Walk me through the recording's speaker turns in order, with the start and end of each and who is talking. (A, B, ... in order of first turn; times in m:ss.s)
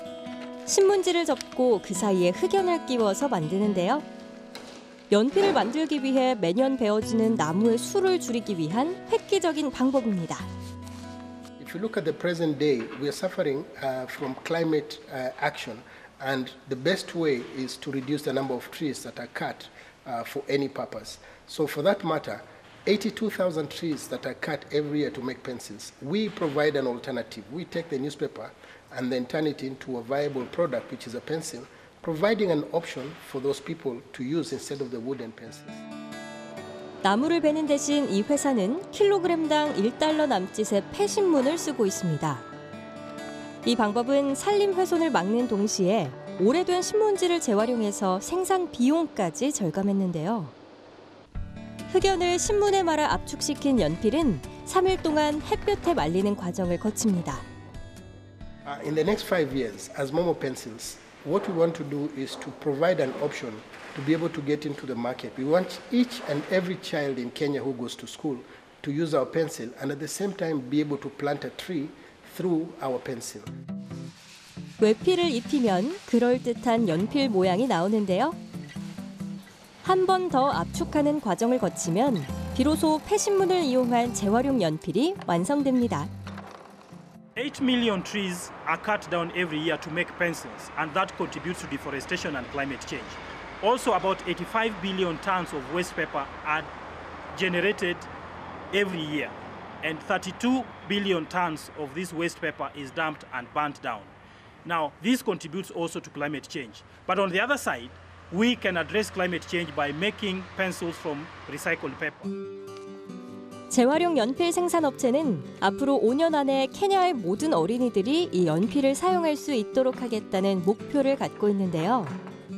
0:00.7-0:04.1 A
0:05.1-0:10.5 A
0:11.6-0:35.8 B
0:37.0-0:42.5 A
0:43.6-0:50.5 A
0:51.9-0:57.4 A
0:58.6-1:13.5 B
1:14.8-1:18.4 A
1:19.8-1:26.1 A
1:27.4-1:36.7 C
1:37.3-1:38.1 C
1:38.7-1:44.1 C
1:44.6-1:52.3 C
1:53.7-2:02.2 A